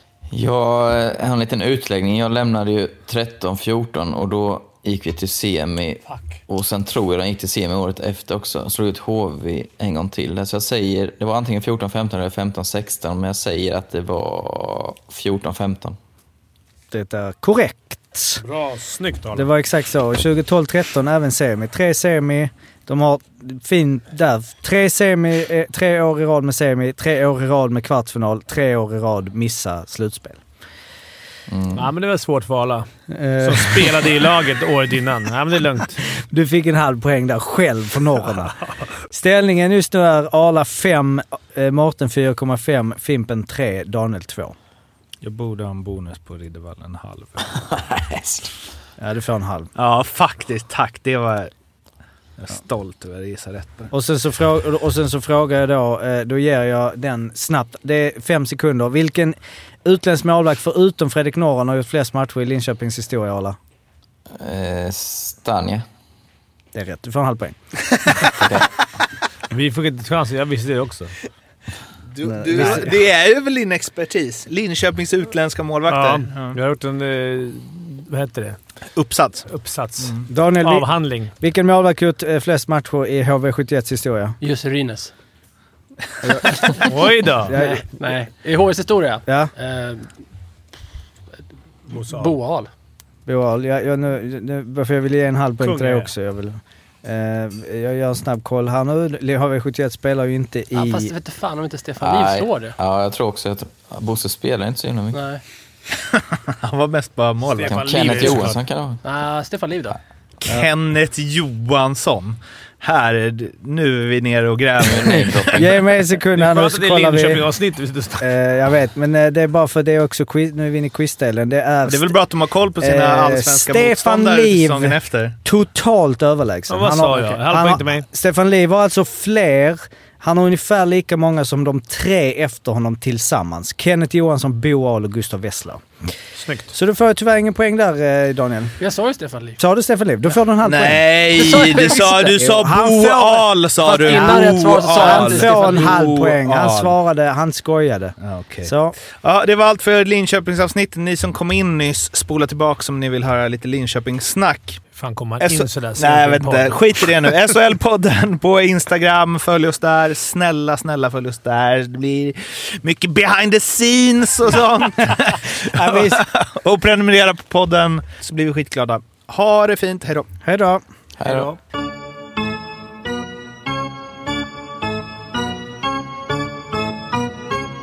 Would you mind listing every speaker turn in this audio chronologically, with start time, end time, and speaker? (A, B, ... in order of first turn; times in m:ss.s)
0:00.3-0:16.0 A
0:06.1-0:06.4 B
0:16.9-0:18.4 C
0:18.4-0:19.5 B
0:19.3-0:30.4 C
0:31.5-0:31.9 A
0:31.7-0:32.9 B
0:33.1-0:34.1 C
0:33.4-0:36.0 B
0:36.2-0:38.6 C
0:39.1-0:44.5 C
0:45.2-0:47.4 D
0:47.7-0:48.5 A
0:49.0-0:49.7 C
0:49.8-0:51.5 D
0:52.4-0:53.9 D
0:53.9-1:03.6 C
1:04.4-1:05.8 A
1:06.7-1:07.6 C
1:08.3-1:08.7 A
1:09.5-1:11.1 B
1:12.1-1:16.6 D
1:12.2-1:12.9 C
1:12.6-1:12.8 B
1:15.9-1:18.6 B
1:18.9-1:19.5 D
1:19.5-1:21.3 B
1:20.0-1:20.2 D
1:20.3-1:24.4 C
1:24.4-1:25.1 E
1:26.2-1:26.8 C
1:26.4-1:26.8 E
1:26.8-1:27.5 B
1:27.4-1:27.8 C
1:27.5-1:30.1 E
1:31.9-1:32.3 B
1:31.9-1:32.7 E
1:33.2-1:41.1 C
1:35.6-1:36.1 B
1:40.7-1:42.7 E
1:42.0-1:45.2 A
1:45.1-1:45.4 E
1:46.1-1:48.4 D
1:47.5-1:48.6 B
1:47.7-1:49.0 A
1:49.0-1:50.0 E
1:50.4-1:55.7 D
1:54.8-1:55.7 A
1:55.0-1:57.4 C
1:56.4-1:58.3 B
1:58.2-2:02.1 C
2:01.8-2:05.4 D
2:02.8-2:15.8 C
2:06.7-2:08.0 B
2:16.4-2:16.7 B
2:16.7-2:18.7 C
2:18.8-2:19.6 E
2:19.6-2:21.2 C
2:20.6-2:26.9 D
2:21.2-2:22.4 E
2:22.3-2:29.0 C
2:23.8-2:26.1 E
2:28.2-2:34.8 D
2:34.9-2:37.1 B
2:35.4-2:50.3 D
2:45.6-2:46.2 C
2:50.4-2:50.8 C
2:51.2-2:51.5 A